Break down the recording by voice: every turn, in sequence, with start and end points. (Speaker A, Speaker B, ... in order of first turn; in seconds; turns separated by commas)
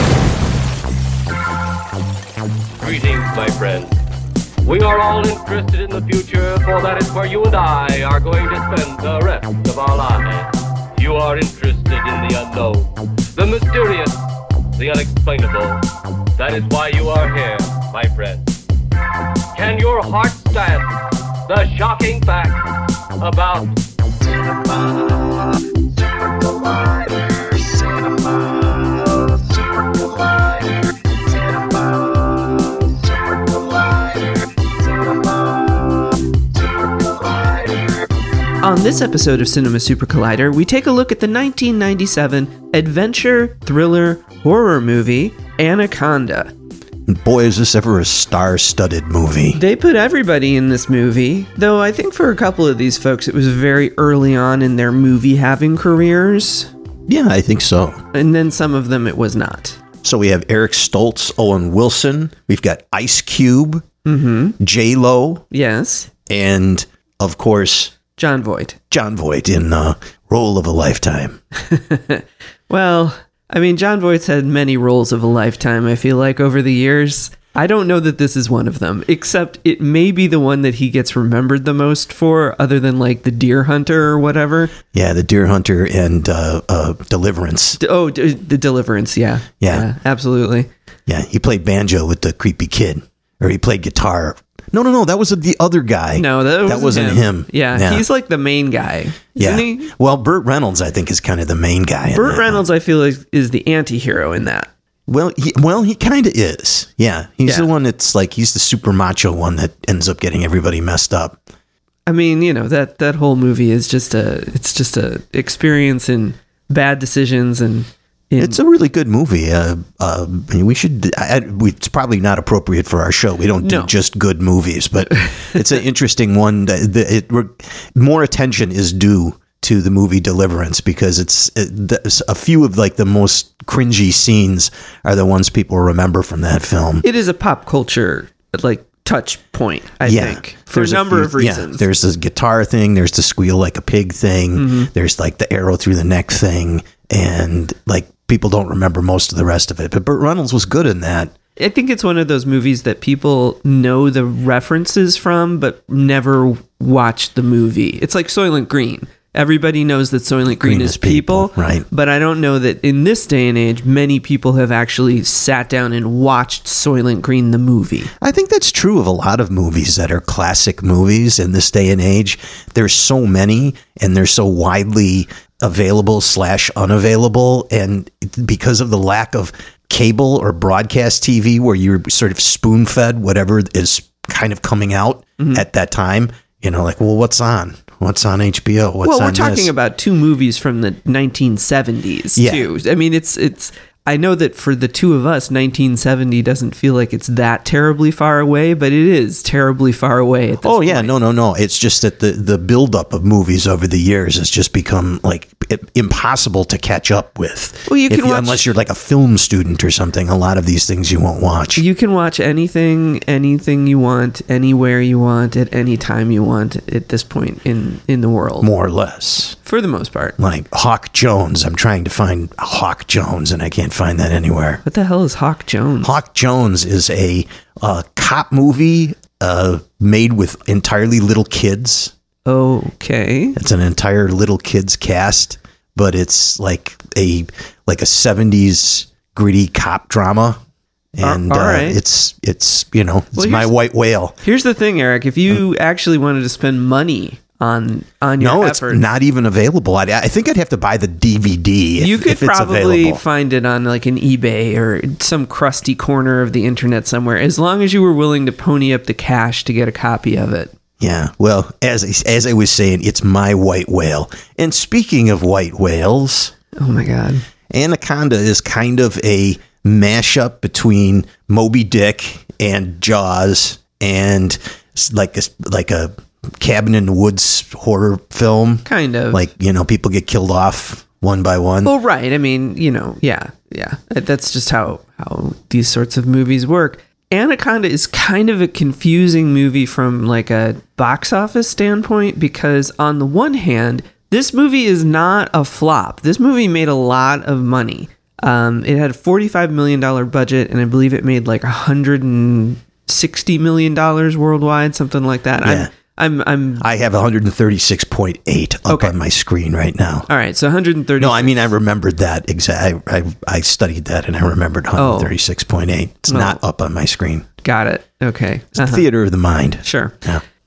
Speaker A: 2.8-4.0, Speaker A: 4.6-14.3, Speaker A: 14.8-15.8, Speaker A: 16.4-18.5, Speaker A: 19.5-25.7, Speaker A: 26.3-35.7, Speaker A: 36.6-38.0, Speaker B: 38.6-46.5, Speaker C: 47.1-49.6, Speaker B: 49.5-56.7, Speaker C: 57.1-58.0, Speaker B: 58.1-59.8, Speaker C: 60.0-63.9, Speaker B: 64.0-64.6, Speaker C: 64.6-65.5, Speaker B: 65.5-66.1, Speaker C: 66.3-68.0, Speaker B: 68.2-68.8, Speaker C: 68.9-71.4, Speaker B: 71.6-84.7, Speaker C: 84.9-87.8, Speaker B: 87.8-90.7, Speaker C: 89.6-89.9, Speaker C: 91.1-98.0, Speaker B: 96.2-99.9, Speaker C: 99.4-102.6, Speaker B: 102.1-104.7, Speaker C: 105.1-111.4, Speaker B: 112.1-118.6, Speaker C: 118.4-137.1, Speaker B: 123.6-123.9, Speaker B: 137.0-141.8, Speaker C: 140.1-151.3, Speaker B: 144.6-144.9, Speaker B: 151.6-168.1, Speaker C: 160.5-161.9, Speaker C: 168.2-189.7, Speaker B: 185.4-185.6, Speaker B: 189.0-201.1, Speaker C: 192.4-192.7, Speaker C: 200.6-211.8, Speaker B: 207.9-208.7, Speaker B: 211.8-218.7, Speaker C: 218.6-219.6, Speaker B: 219.6-220.4, Speaker C: 220.4-224.8, Speaker B: 224.8-226.1, Speaker C: 226.0-232.1, Speaker B: 232.5-233.6, Speaker C: 233.6-240.6, Speaker C: 241.2-244.4, Speaker B: 241.2-242.0, Speaker B: 243.4-243.7, Speaker B: 244.4-249.0, Speaker C: 248.4-253.2, Speaker B: 252.0-260.7, Speaker C: 261.0-266.5, Speaker B: 266.8-267.4, Speaker C: 267.7-281.9, Speaker B: 278.9-279.4, Speaker B: 281.8-306.9, Speaker C: 305.6-305.9, Speaker C: 306.8-310.3, Speaker B: 308.9-309.1, Speaker B: 310.3-311.7, Speaker C: 311.2-317.5, Speaker B: 315.0-315.4, Speaker B: 316.3-316.6, Speaker B: 317.6-319.1, Speaker C: 318.8-320.4, Speaker B: 319.8-320.1